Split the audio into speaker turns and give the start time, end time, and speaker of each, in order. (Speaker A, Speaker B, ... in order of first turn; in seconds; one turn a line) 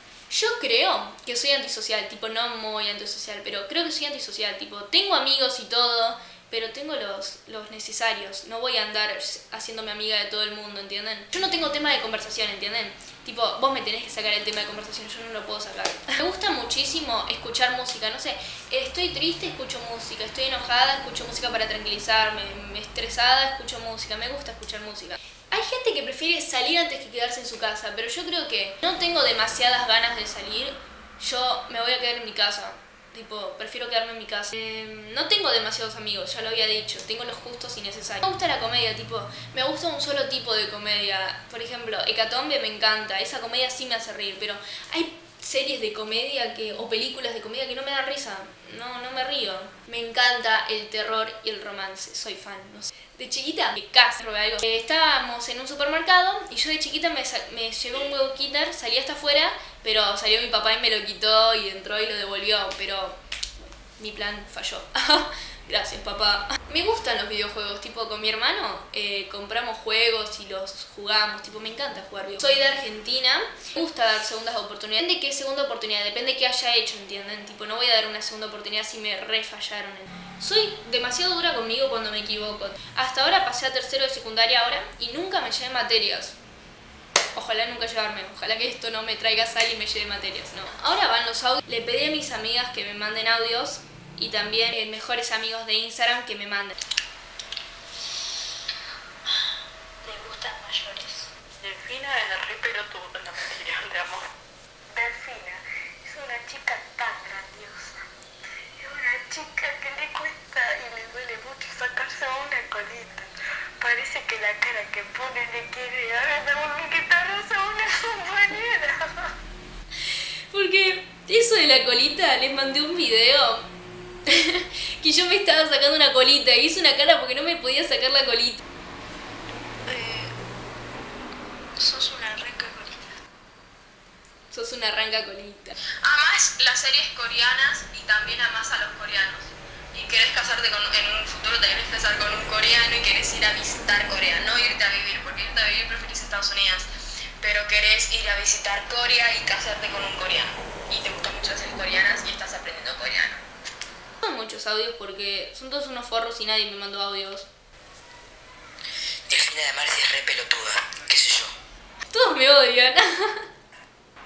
Speaker A: 0.3-86.4
Speaker A: 87.3-96.8
Speaker B: 101.7-103.0
Speaker C: 101.7-104.2
Speaker B: 103.5-103.9
Speaker B: 104.9-108.0
Speaker B: 108.8-119.3
Speaker A: 120.5-123.7
Speaker A: 124.3-128.6
Speaker A: 134.5-135.8
Speaker D: 136.0-146.9
Speaker D: 147.4-153.4
Speaker A: 154.2-157.5
Speaker E: 159.3-161.5
Speaker A: 162.1-163.5